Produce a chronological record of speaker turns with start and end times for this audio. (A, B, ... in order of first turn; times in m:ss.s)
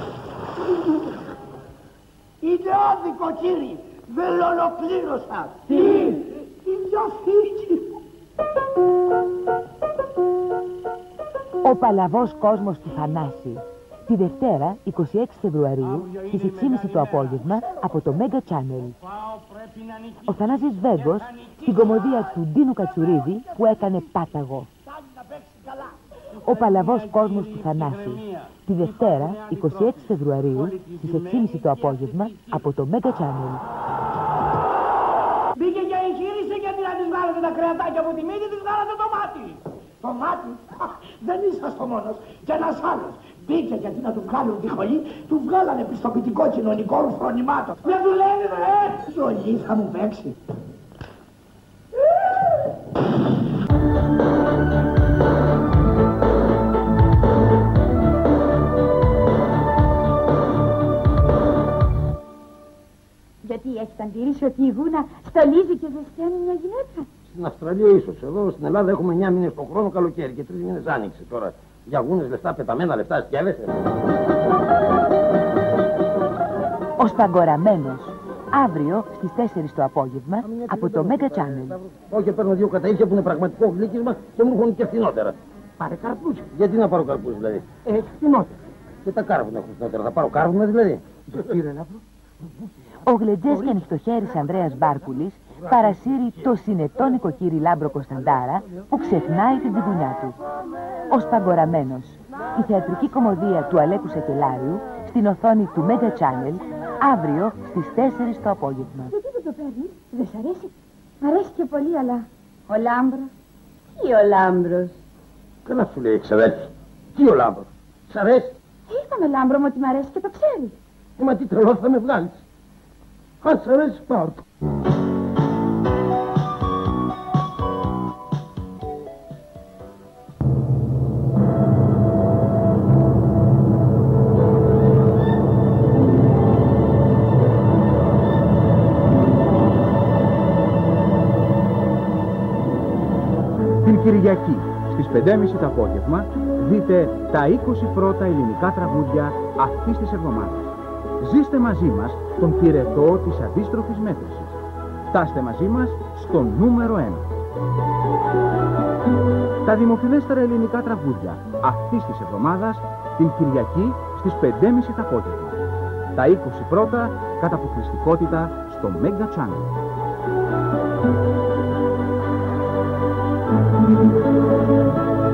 0:02.4-0:06.1 A
0:05.7-0:06.1 B
0:06.6-0:07.8 A
0:11.6-0:19.0 B
0:20.1-0:24.7 B
0:24.9-0:25.9 A
0:26.4-0:33.6 B
0:35.6-0:50.3 A
1:03.4-1:07.1 C
1:07.3-1:13.8 D
1:17.0-1:21.8 B
1:20.4-1:32.0 D
1:33.0-1:40.4 B
1:35.7-1:36.0 D
1:41.1-1:49.1 B
1:49.1-1:53.3 C
1:53.9-1:55.0 C
1:55.6-1:58.6 D
1:58.9-2:00.8 C
2:01.2-2:02.4 D
2:03.4-2:04.4 D
2:23.8-2:34.5 E
2:35.1-2:37.3 E
2:39.6-2:45.6 E
2:46.2-2:49.7 E